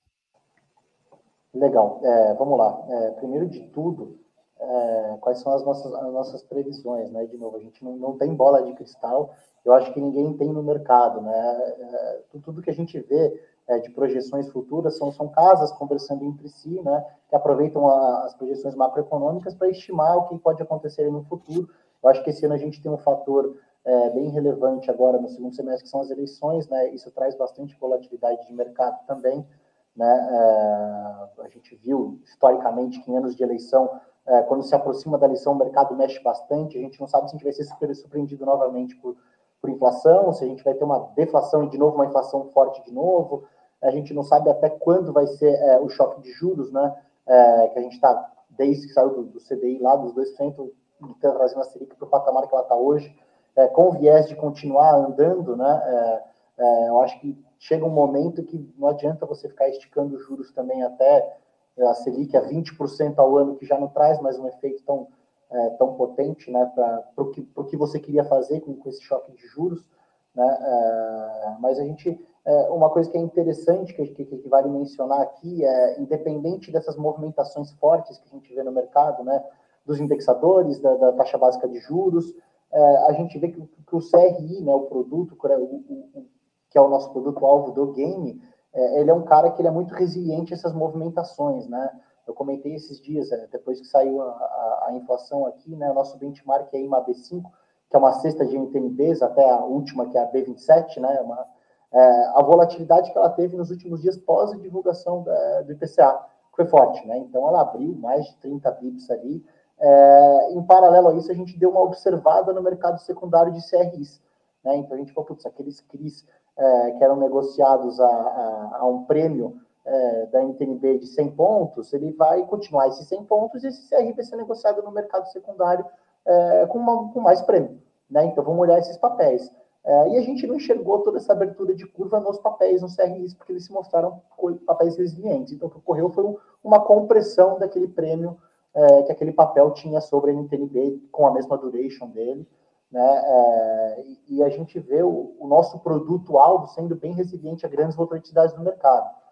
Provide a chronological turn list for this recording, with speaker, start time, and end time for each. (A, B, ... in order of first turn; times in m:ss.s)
0:01.5-2:29.1 A